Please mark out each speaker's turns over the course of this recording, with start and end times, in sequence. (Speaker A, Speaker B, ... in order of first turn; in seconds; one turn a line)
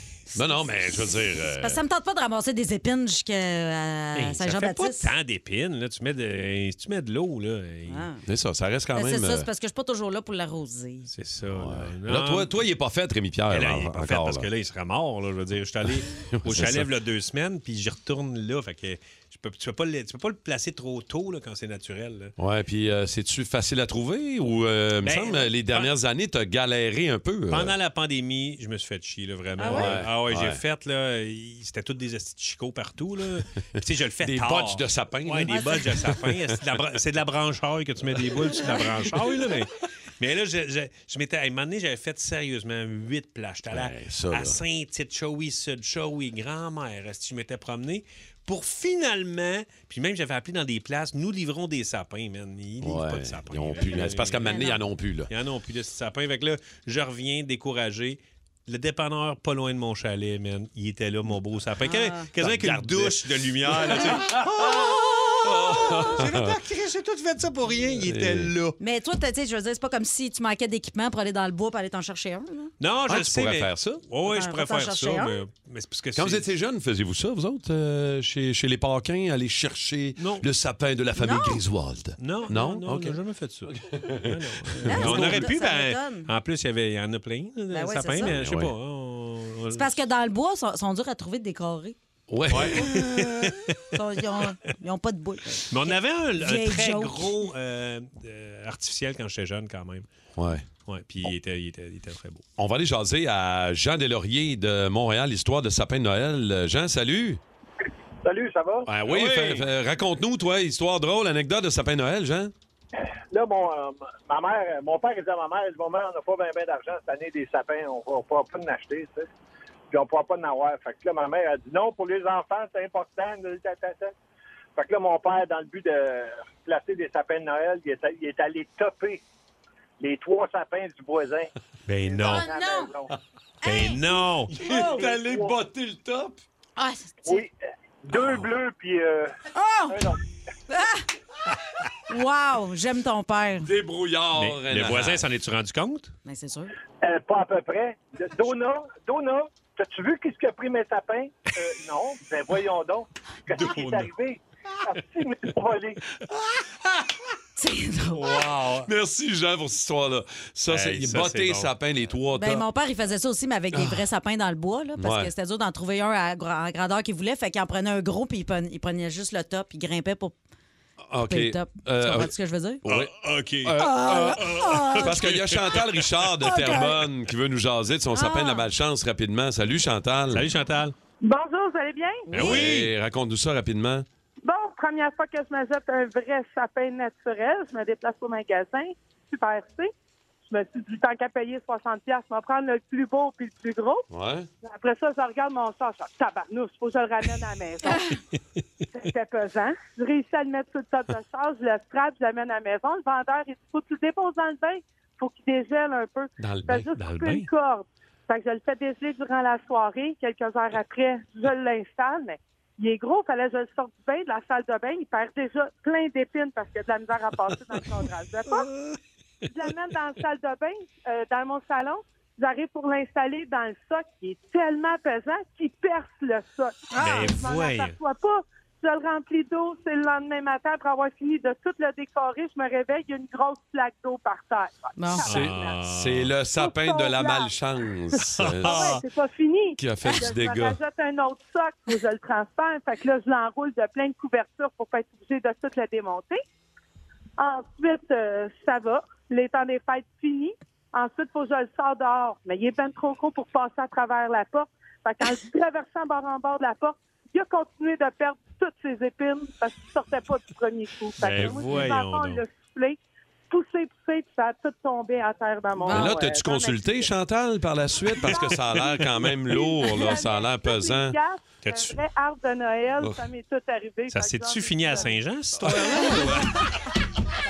Speaker A: 0.3-0.9
Speaker B: 0.3-1.8
Speaker A: 1.6-5.1
Speaker C: 4.1-8.1
Speaker A: 7.9-8.2
Speaker B: 8.2-9.5
Speaker A: 8.9-11.1
Speaker C: 11.1-12.5
Speaker B: 11.5-14.5
Speaker C: 13.5-22.3
Speaker B: 16.2-16.9
Speaker B: 22.4-27.7
Speaker C: 25.0-25.9
Speaker C: 27.5-54.6
Speaker A: 29.6-30.0
Speaker B: 29.7-30.6
Speaker B: 34.2-36.3
Speaker B: 43.7-44.6
Speaker B: 52.8-55.3
Speaker A: 54.5-54.8
Speaker C: 55.3-68.8
Speaker A: 61.8-62.3
Speaker B: 62.4-66.6
Speaker B: 68.0-68.5
Speaker A: 68.8-72.7
Speaker C: 72.8-76.5
Speaker B: 73.1-74.0
Speaker A: 74.3-75.3
Speaker B: 76.1-85.5
Speaker C: 80.2-80.4
Speaker A: 81.2-81.6
Speaker C: 82.2-89.9
Speaker A: 84.9-86.3
Speaker A: 87.7-88.3
Speaker B: 88.2-88.7
Speaker A: 89.7-92.0
Speaker B: 92.3-93.3
Speaker C: 92.5-93.8
Speaker A: 92.7-93.0
Speaker A: 93.9-97.3
Speaker C: 95.7-100.1
Speaker B: 100.3-100.6
Speaker C: 100.8-102.4
Speaker B: 102.6-107.4
Speaker D: 108.2-108.9
Speaker B: 108.9-112.5
Speaker C: 109.0-109.7
Speaker D: 113.3-119.3
Speaker D: 119.9-124.1
Speaker D: 124.8-129.2
Speaker D: 130.0-131.5
Speaker C: 131.9-132.5
Speaker D: 132.1-133.1
Speaker A: 132.2-132.9
Speaker A: 133.6-135.1
Speaker C: 133.6-134.6
Speaker B: 134.5-136.4
Speaker D: 134.8-135.6
Speaker A: 136.8-137.4
Speaker D: 137.2-137.5
Speaker D: 138.0-139.3
Speaker A: 139.5-140.0
Speaker D: 139.9-140.2
Speaker A: 140.7-141.0
Speaker A: 142.1-143.7
Speaker B: 143.6-145.2
Speaker C: 144.3-146.1
Speaker A: 146.2-146.7
Speaker D: 147.0-156.0
Speaker C: 153.6-154.1
Speaker A: 157.6-158.4
Speaker C: 158.1-158.9
Speaker B: 158.8-162.6
Speaker C: 160.7-161.7
Speaker A: 162.3-170.3
Speaker B: 165.0-165.3
Speaker B: 171.1-172.3
Speaker A: 171.2-172.8
Speaker B: 172.8-173.1
Speaker C: 172.8-176.1
Speaker B: 173.6-174.4
Speaker A: 173.8-175.1
Speaker B: 174.9-180.4
Speaker A: 176.4-176.9
Speaker A: 178.1-178.7
Speaker C: 180.3-180.9
Speaker E: 181.2-182.3
Speaker C: 182.3-182.9
Speaker B: 182.3-184.1
Speaker E: 184.4-189.9
Speaker E: 190.5-194.1
Speaker B: 194.1-194.5
Speaker E: 194.6-198.1
Speaker E: 198.9-218.7
Speaker B: 206.4-206.9
Speaker C: 206.9-207.5
Speaker E: 219.5-235.8
Speaker A: 226.9-227.3
Speaker C: 227.0-228.0
Speaker A: 235.0-235.3
Speaker C: 235.2-236.3
Speaker B: 235.3-239.0
Speaker E: 236.6-237.5
Speaker C: 238.2-239.0
Speaker E: 238.6-246.4
Speaker B: 239.8-240.8
Speaker E: 247.4-263.0
Speaker C: 261.2-262.4
Speaker E: 263.5-267.1
Speaker B: 265.8-271.2
Speaker C: 268.3-268.9
Speaker E: 269.5-275.2
Speaker C: 271.6-271.9
Speaker C: 274.1-276.6
Speaker B: 275.7-276.0